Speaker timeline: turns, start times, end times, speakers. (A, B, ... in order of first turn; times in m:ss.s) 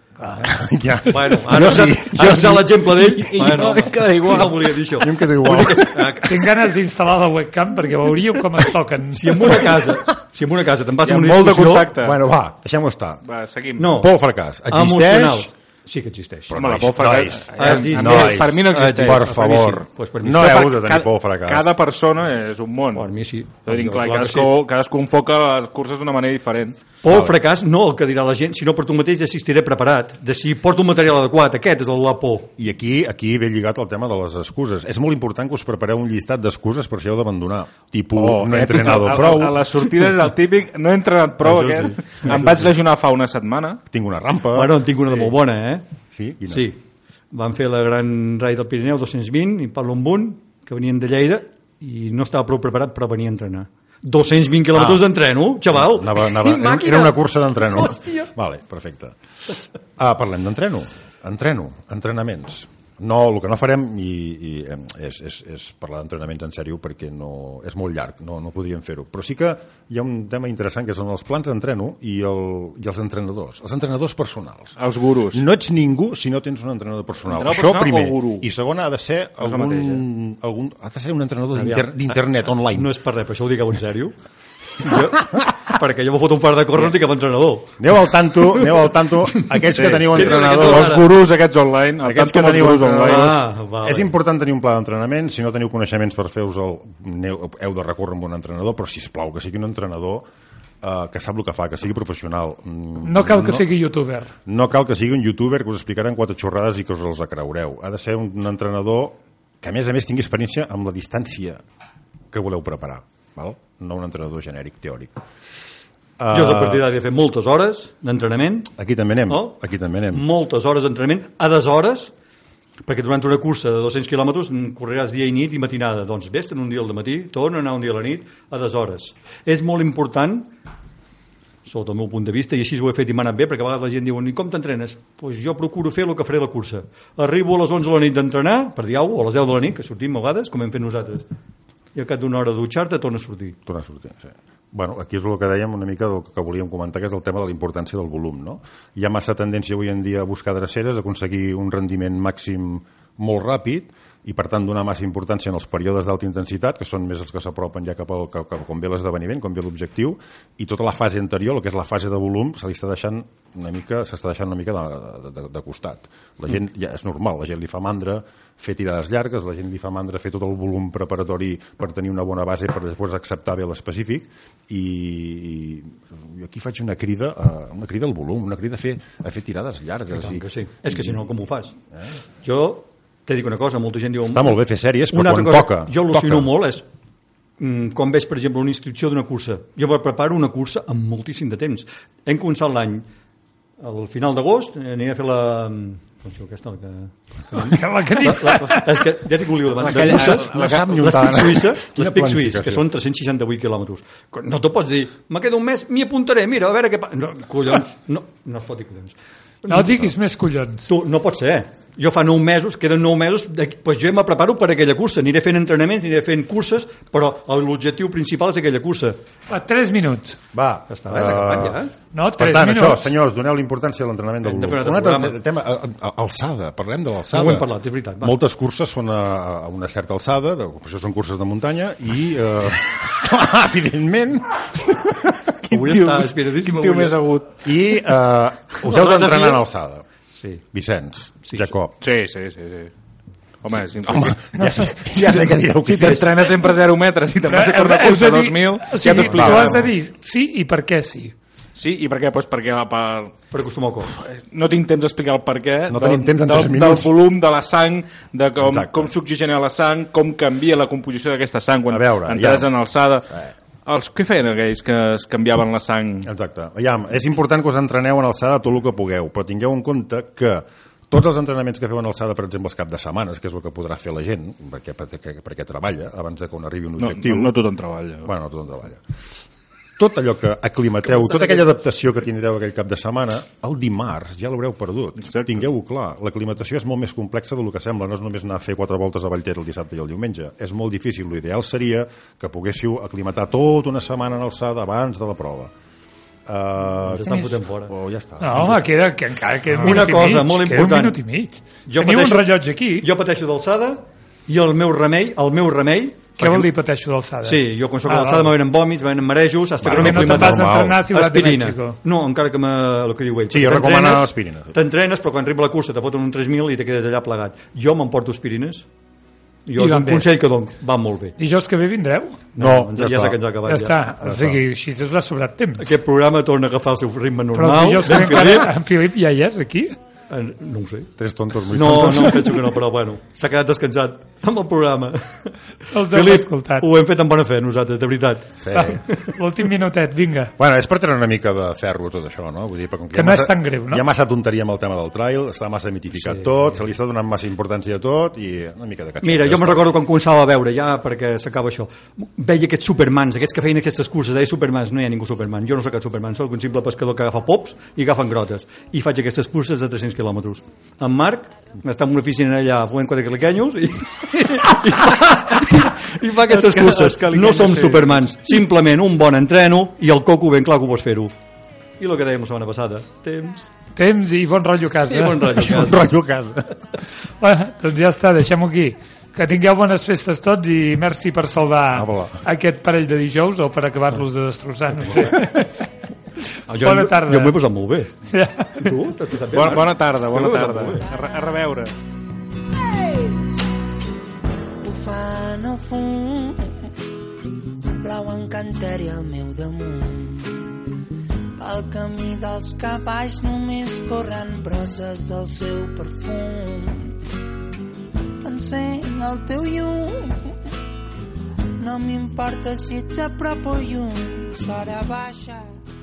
0:00.4-0:02.8 A
0:01.0-0:06.6 B
0:02.9-0:04.8 C
0:05.0-0:06.2 A
0:06.2-0:09.8 D
0:09.1-0:11.9 B
0:11.0-0:12.2 C
0:12.0-0:13.2 A
0:13.2-0:14.0 C
0:13.8-0:14.1 B
0:13.9-0:15.5 A
0:14.7-0:16.7 B
0:16.5-0:21.7 A
0:16.5-0:19.3 C
0:17.5-0:20.6 B
0:20.3-0:23.1 C
0:22.9-0:24.5 B
0:23.6-0:26.8 C
0:27.0-0:32.5 B
0:27.0-0:27.3 A
0:32.6-0:39.7 A
0:38.1-0:43.8 C
0:41.4-0:42.7 B
0:43.9-0:44.7 A
0:44.5-0:45.8 B
0:46.1-0:46.7 A
0:46.4-0:46.8 B
0:47.3-0:58.3 B
0:54.7-0:55.1 A
0:55.7-1:14.8 A
1:14.8-1:15.4 C
1:15.3-1:22.9 A
1:17.2-1:18.5 C
1:19.4-1:20.0 C
1:21.5-1:21.9 B
1:22.7-1:24.1 B
1:24.8-1:27.8 B
1:27.8-1:31.0 A
1:29.6-1:33.4 C
1:30.1-1:31.1 B
1:32.0-1:40.3 A
1:33.0-1:34.1 B
1:40.8-1:43.7 A
1:43.0-1:44.3 D
1:44.4-1:51.6 A
1:52.3-1:55.2 A
1:56.2-1:56.9 A
1:56.3-1:58.7 B
1:58.7-2:00.2 A
1:59.3-1:59.6 B
2:00.1-2:02.1 B
2:02.8-2:10.5 B
2:11.6-2:21.2 B
2:21.9-2:23.6 B
2:23.6-3:01.1 A
3:00.1-3:01.8 B
3:02.4-3:04.6 B
3:04.3-3:06.5 A
3:05.1-3:06.8 B
3:07.6-3:13.0 B
3:13.8-3:30.1 B
3:17.5-3:18.9 D
3:19.8-3:21.2 C
3:19.9-3:22.8 A
3:29.7-3:30.9 D
3:30.8-3:39.2 B
3:39.5-3:40.4 D
3:40.5-3:41.8 A
3:40.9-3:41.9 B
3:42.1-3:43.1 D
3:42.3-3:55.4 A
3:44.4-3:45.4 B
3:47.3-3:48.3 B
3:55.6-3:57.5 C
3:55.7-3:57.2 B
3:57.6-4:00.0 A
3:58.7-3:59.6 B
4:00.3-4:00.6 B
4:00.7-4:02.0 A
4:01.4-4:01.7 B
4:02.0-4:02.9 C
4:03.6-4:09.9 C
4:04.0-4:06.5 A
4:07.5-4:11.3 D
4:09.1-4:09.9 A
4:11.8-4:13.3 C
4:13.5-4:14.2 B
4:14.1-4:23.3 C
4:15.9-4:17.1 A
4:18.6-4:19.1 A
4:21.9-4:22.7 A
4:23.8-4:26.3 C
4:26.2-4:37.6 A
4:37.0-4:38.3 C
4:38.2-4:39.0 A
4:40.0-4:55.7 A
4:45.3-4:45.6 C
4:56.4-4:59.0 A
4:57.0-4:57.9 B
4:58.4-5:03.1 D
4:59.7-5:00.0 A
4:59.8-5:01.2 B
5:01.8-5:06.7 B
5:06.4-5:08.5 D
5:07.4-5:18.9 B
5:09.8-5:11.0 A
5:09.8-5:12.0 D
5:13.5-5:14.7 A
5:19.6-5:21.4 B
5:19.8-5:20.4 D
5:21.4-5:22.4 D
5:22.5-5:24.0 B
5:22.6-5:23.4 A
5:23.6-5:25.9 D
5:24.2-5:24.6 A
5:25.8-5:28.7 B
5:27.5-5:30.0 D
5:30.3-5:31.1 B
5:31.2-5:32.8 A
5:31.7-5:39.4 B
5:35.9-5:36.9 D
5:38.6-5:39.0 A
5:38.7-5:40.5 D
5:40.6-5:50.0 A
5:43.1-5:44.0 D
5:46.2-5:46.5 B
5:49.2-6:11.3 B
6:06.5-6:08.2 C
6:12.0-6:13.7 B
6:14.0-6:15.7 D
6:15.1-6:16.1 B
6:15.5-6:16.8 A
6:17.4-6:25.8 D
6:21.9-6:22.4 A
6:26.7-6:28.1 B
6:26.7-6:27.6 D
6:28.3-6:29.0 D
6:28.8-6:31.1 B
6:29.5-6:31.9 C
6:32.7-6:33.6 E
6:34.8-6:36.9 E
6:37.6-6:40.9 E
6:41.6-6:47.2 E
6:48.4-6:50.7 E
6:51.8-6:55.7 E